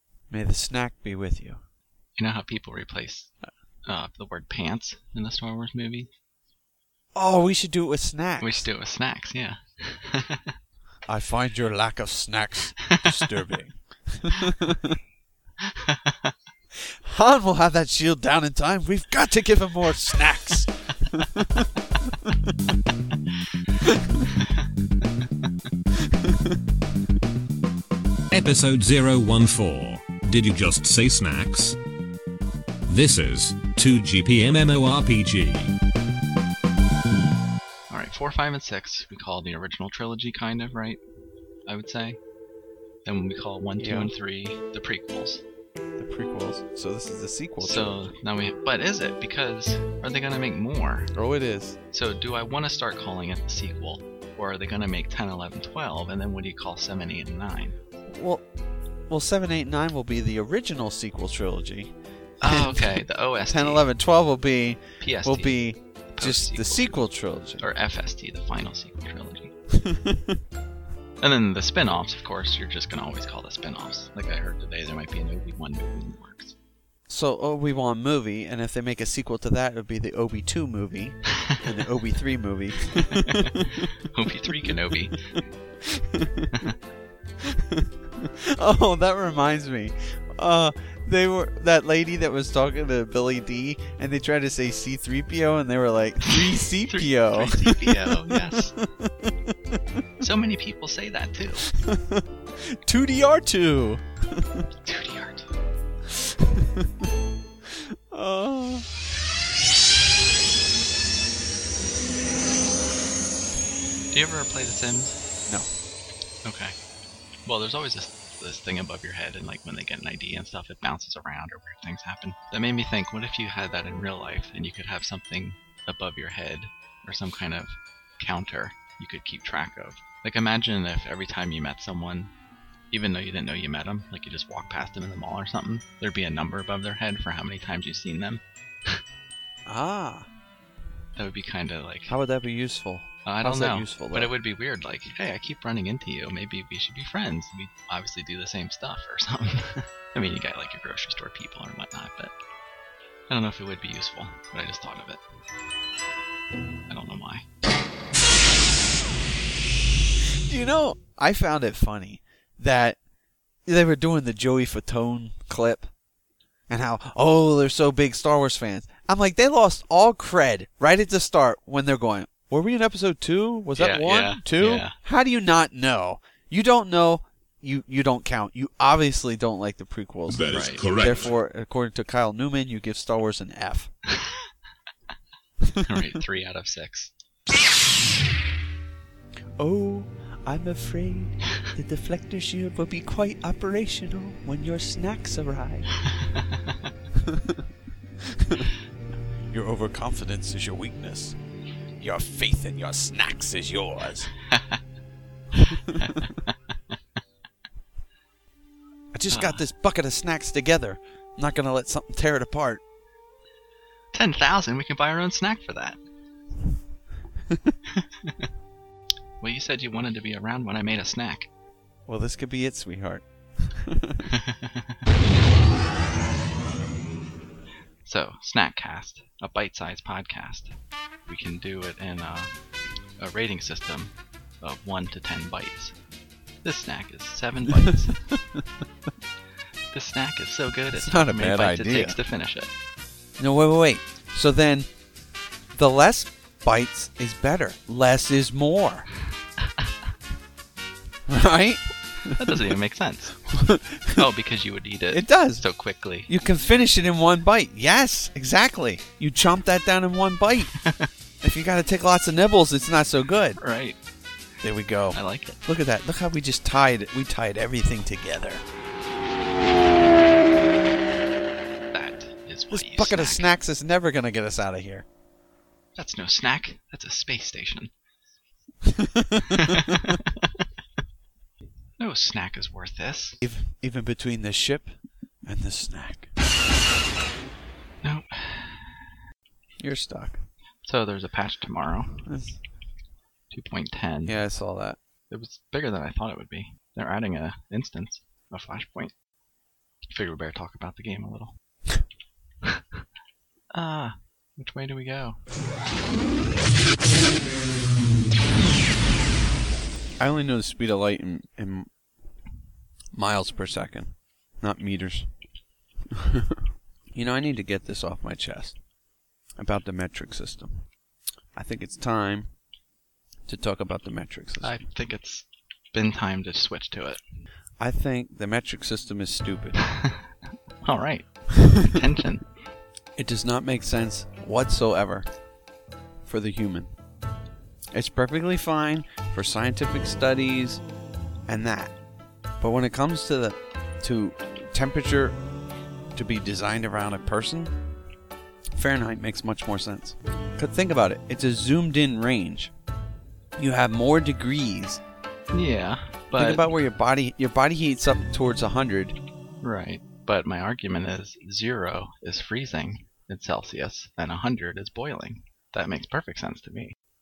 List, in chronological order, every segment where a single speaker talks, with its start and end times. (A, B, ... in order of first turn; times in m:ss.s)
0:00.3-0:01.6 A
0:02.2-0:03.3 B
0:03.9-0:06.1 B
0:07.2-0:08.7 A
0:08.4-0:10.5 B
0:11.1-0:15.0 A
0:15.6-0:16.3 B
0:16.8-0:21.7 A
0:23.8-0:24.3 A
0:24.4-0:24.6 B
0:26.0-0:26.6 A
0:28.3-0:31.8 C
0:32.9-0:35.7 C
0:37.9-0:41.0 B
0:41.7-0:42.2 B
0:43.0-0:45.4 B
0:43.8-0:44.1 A
0:46.0-0:48.1 A
0:47.6-0:51.1 B
0:51.2-0:51.8 A
0:51.9-0:57.8 B
0:58.1-0:58.4 A
0:59.1-1:07.7 A
1:02.4-1:03.9 B
1:05.0-1:07.0 B
1:07.6-1:09.5 B
1:09.8-1:10.4 A
1:11.2-1:16.6 B
1:17.1-1:23.8 A
1:23.1-1:25.3 B
1:25.9-1:26.5 A
1:27.5-1:39.3 A
1:36.3-1:38.8 B
1:40.2-1:41.7 B
1:41.8-1:44.7 A
1:44.8-1:45.5 B
1:46.6-1:47.1 A
1:47.7-1:48.9 A
1:54.1-1:55.2 B
1:56.4-1:56.8 B
1:57.5-2:12.3 B
2:12.9-2:19.0 B
2:19.7-2:20.3 A
2:21.2-2:22.1 B
2:22.1-2:24.3 A
2:23.2-2:32.3 B
2:33.3-2:35.2 B
2:36.9-2:37.4 B
2:40.5-2:43.0 A
2:43.7-2:45.9 A
2:46.7-3:03.9 A
2:53.8-2:55.0 B
3:00.3-3:01.1 C
3:00.5-3:01.3 B
3:05.7-3:06.2 A
3:05.8-3:07.1 B
3:09.6-3:15.9 A
3:17.2-3:17.6 A
3:18.3-3:18.7 A
3:19.5-3:21.4 A
3:22.0-3:24.3 A
3:24.5-3:24.8 B
3:25.6-3:26.2 A
3:26.0-3:26.6 B
3:29.1-3:32.8 A
3:29.3-3:29.7 B
3:34.1-3:36.0 B
3:37.9-3:38.5 B
3:39.4-3:41.5 B
3:42.1-3:44.3 A
3:44.3-3:45.1 B
3:48.0-3:50.7 B
3:51.3-3:52.5 B
3:53.2-3:56.0 B
3:56.6-3:58.2 B
3:57.9-3:58.6 A
3:59.9-4:02.7 B
4:00.9-4:02.2 A
4:03.4-4:04.9 A
4:05.8-4:09.1 A
4:11.3-4:12.6 A
4:12.3-4:13.4 B
4:13.5-4:14.2 A
4:14.2-4:16.3 B
4:15.1-4:15.7 A
4:16.3-4:20.7 A
4:21.4-4:23.6 A
4:23.6-4:24.0 B
4:24.6-4:28.6 A
4:25.1-4:25.6 B
4:31.9-4:33.5 B
4:32.7-4:35.0 A
4:36.0-4:37.9 B
4:38.9-4:39.9 A
4:39.5-4:40.5 B
4:42.0-4:43.4 B
4:43.4-4:44.9 A
4:45.4-4:46.3 A
4:48.0-4:48.9 B
4:49.8-4:50.4 A
4:50.8-4:52.3 B
4:52.2-4:52.6 A
4:53.5-4:54.4 B
4:54.2-4:55.0 A
4:55.3-4:59.1 B
5:00.1-5:01.6 B
5:03.7-5:05.4 B
5:10.2-5:11.9 A
5:13.1-5:15.3 A
5:16.2-5:16.6 A
5:17.1-5:18.8 A
5:19.6-5:20.9 A
5:21.6-5:22.5 A
5:23.5-5:24.8 A
5:24.6-5:27.2 B
5:27.8-5:29.8 A
5:30.8-5:32.5 B
5:33.2-5:35.3 A
5:36.2-5:36.9 A
5:37.9-5:40.8 A
5:41.5-5:41.9 A
5:42.6-5:45.4 A
5:46.2-5:47.8 A
5:48.7-5:52.7 A
5:53.6-5:55.0 A
5:55.5-5:56.7 B
5:56.4-5:59.2 A
5:59.6-6:07.0 B